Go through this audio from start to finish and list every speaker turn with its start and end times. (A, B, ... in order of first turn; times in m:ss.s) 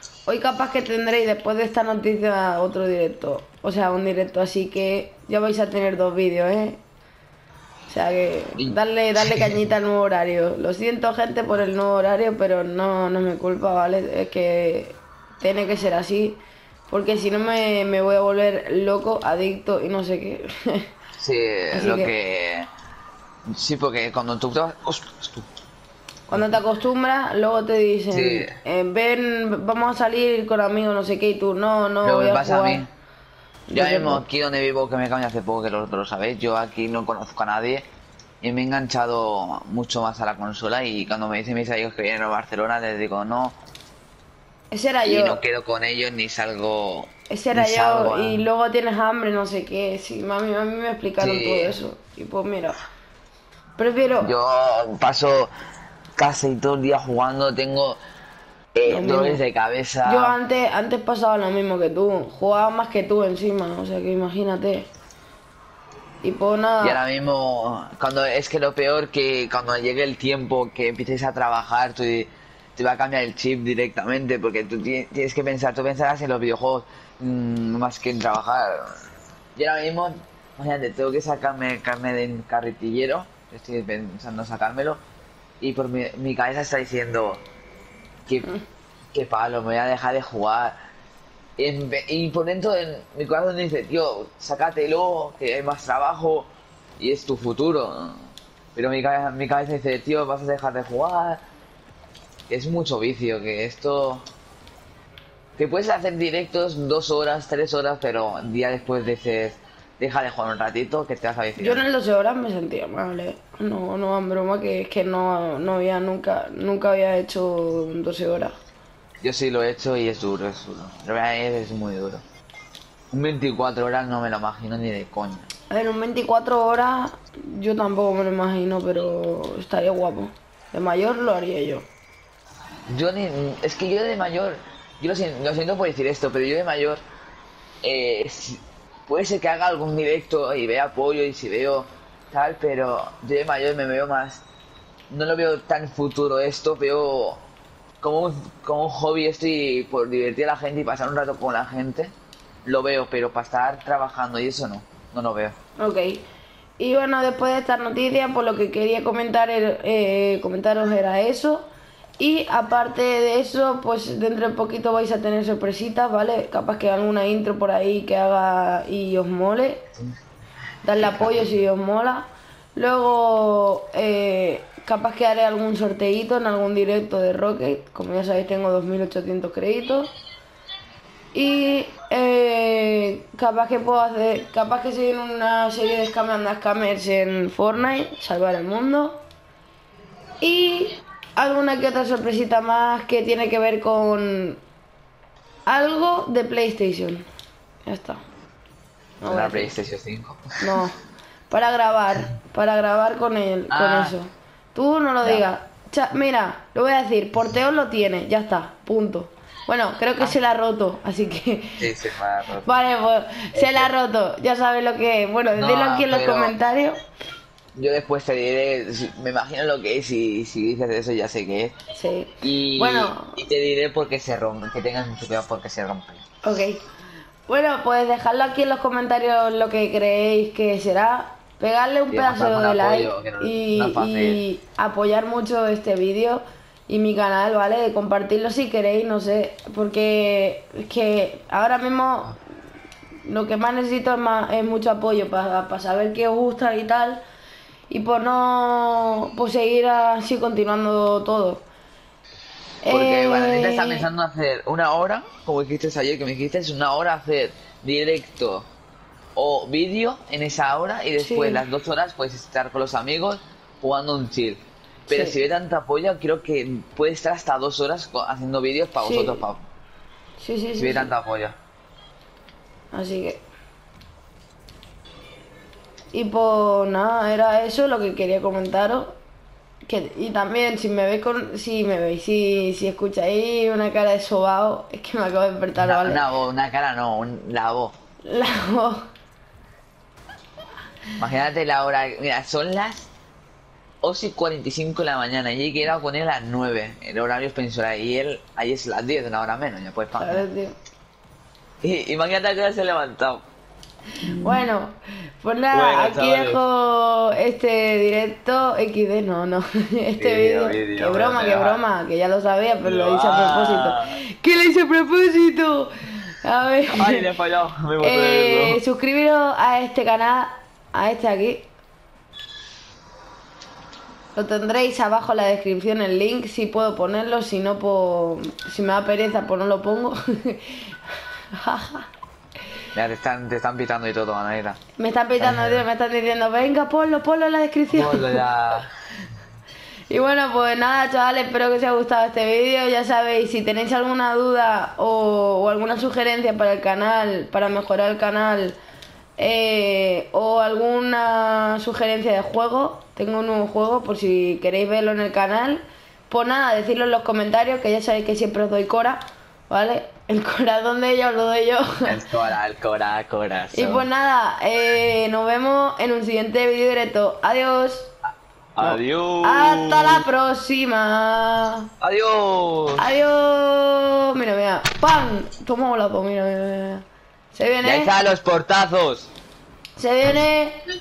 0:00.3-0:06.8 A
0:07.9-0:20.9 A
0:08.6-0:09.6 B
0:21.2-0:22.7 B
0:21.7-0:22.1 A
0:23.5-0:25.5 B
0:26.3-0:32.8 A
0:28.1-0:28.5 B
0:32.0-0:32.9 B
0:33.7-0:34.2 A
0:33.7-0:37.8 B
0:38.4-0:43.6 B
0:44.7-0:45.4 A
0:45.0-0:48.4 B
0:47.3-0:52.8 A
0:51.2-0:51.7 B
0:53.8-0:54.3 A
0:54.2-0:55.5 B
0:56.2-0:58.0 B
0:58.8-1:00.4 B
0:58.8-0:59.4 A
1:00.0-1:04.9 A
1:06.2-1:07.0 A
1:06.8-1:19.0 B
1:19.6-1:25.0 B
1:25.6-1:27.4 B
1:29.1-1:30.8 B
1:31.6-1:41.4 B
1:42.5-1:44.3 B
1:45.6-1:51.8 B
1:51.6-1:58.6 A
1:59.2-2:02.2 B
2:03.1-2:05.5 B
2:05.7-2:11.9 A
2:12.9-2:17.0 B
2:17.8-2:24.4 B
2:25.1-2:27.4 B
2:28.0-2:32.1 B
2:32.6-2:35.6 B
2:35.8-2:36.2 A
2:36.8-2:49.9 A
2:50.8-3:00.1 A
2:51.0-2:51.5 B
3:01.3-3:09.2 A
3:10.4-3:14.6 A
3:15.7-3:17.3 A
3:17.8-3:18.2 A
3:19.2-3:19.8 A
3:19.3-3:20.6 B
3:20.6-3:21.0 A
3:21.5-3:31.9 A
3:23.7-3:24.1 B
3:31.8-3:32.7 B
3:32.6-3:37.0 A
3:33.5-3:33.9 B
3:35.6-3:36.5 B
3:37.8-3:41.8 B
3:42.0-3:43.4 A
3:42.4-3:46.2 B
3:46.4-3:46.8 A
3:47.5-4:02.4 A
3:52.1-3:54.4 B
4:03.2-4:07.2 A
4:07.9-4:11.6 A
4:12.8-4:14.1 A
4:12.9-4:18.7 B
4:19.4-4:29.6 B
4:21.2-4:21.6 A
4:25.1-4:25.4 A
4:29.0-4:29.4 A
4:30.4-4:31.1 A
4:30.8-4:31.6 B
4:32.9-4:33.5 A
4:36.1-4:39.2 A
4:39.8-4:46.2 A
4:45.8-4:48.0 B
4:48.2-4:49.0 A
4:51.2-4:53.1 B
4:54.0-5:00.4 B
5:00.2-5:00.8 A
5:01.8-5:03.4 B
5:04.2-5:17.3 A
5:05.7-5:06.6 B
5:10.2-5:11.8 B
5:12.8-5:14.2 B
5:16.9-5:18.8 B
5:18.0-5:21.7 A
5:24.4-5:31.0 A
5:31.5-5:32.1 A
5:33.0-5:34.8 B
5:35.0-5:38.4 A
5:35.4-5:35.8 B
5:37.9-5:38.9 B
5:40.1-5:48.8 A
5:49.4-6:02.2 A
6:02.0-6:04.0 B
6:03.7-6:08.1 A
6:08.8-6:10.2 B
6:08.8-6:11.9 A
6:12.0-6:13.1 B
6:13.0-6:18.2 A
6:17.8-6:19.3 B
6:20.0-6:20.8 A